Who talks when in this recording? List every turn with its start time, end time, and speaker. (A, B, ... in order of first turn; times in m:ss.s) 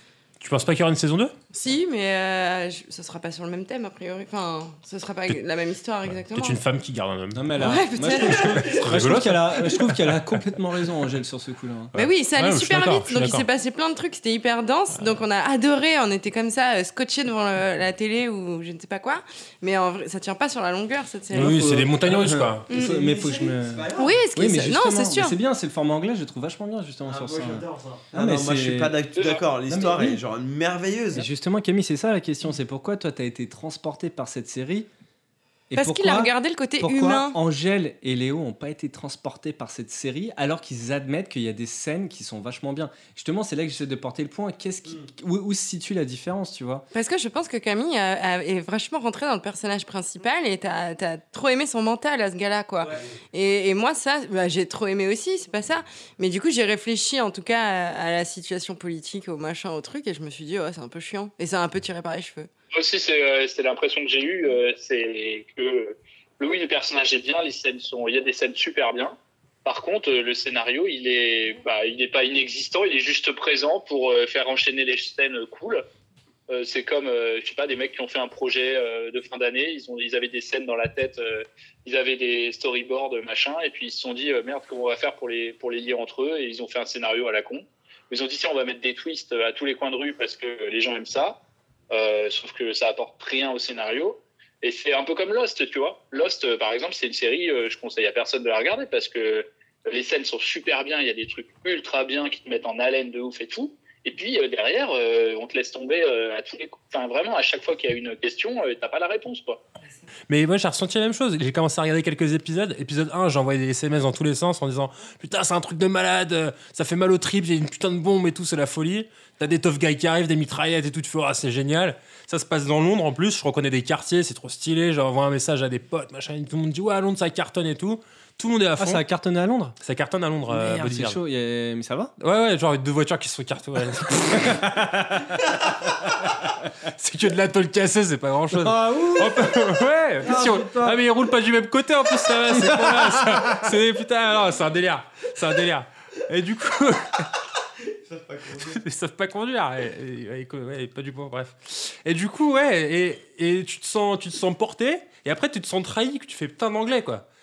0:00.4-0:01.3 A
0:01.5-0:06.6 B
0:06.3-0:10.3 A
0:07.3-0:11.9 C
0:07.6-0:08.9 B
0:11.9-0:13.5 A
0:11.9-0:21.7 B
0:21.3-0:22.7 A
0:21.3-0:29.0 C
0:22.7-0:23.0 B
0:22.9-0:24.2 D
0:24.0-0:25.4 B
0:27.1-0:31.3 D
0:29.2-0:29.4 E
0:29.7-0:30.2 C
0:31.1-0:34.9 C
0:35.7-0:46.9 C
0:35.8-0:37.4 B
0:46.9-1:02.5 B
1:02.7-1:15.8 E
1:16.5-1:31.4 E
1:31.9-1:49.6 E
1:50.3-2:09.0 A
2:08.8-2:09.8 C
2:09.8-2:11.2 A
2:10.5-2:12.1 C
2:12.2-2:14.8 A
2:14.3-2:15.4 C
2:15.9-2:16.4 A
2:17.0-2:27.3 A
2:18.5-2:19.7 C
2:20.2-2:21.0 C
2:22.5-2:23.6 C
2:28.0-2:28.8 D
2:28.6-2:37.2 A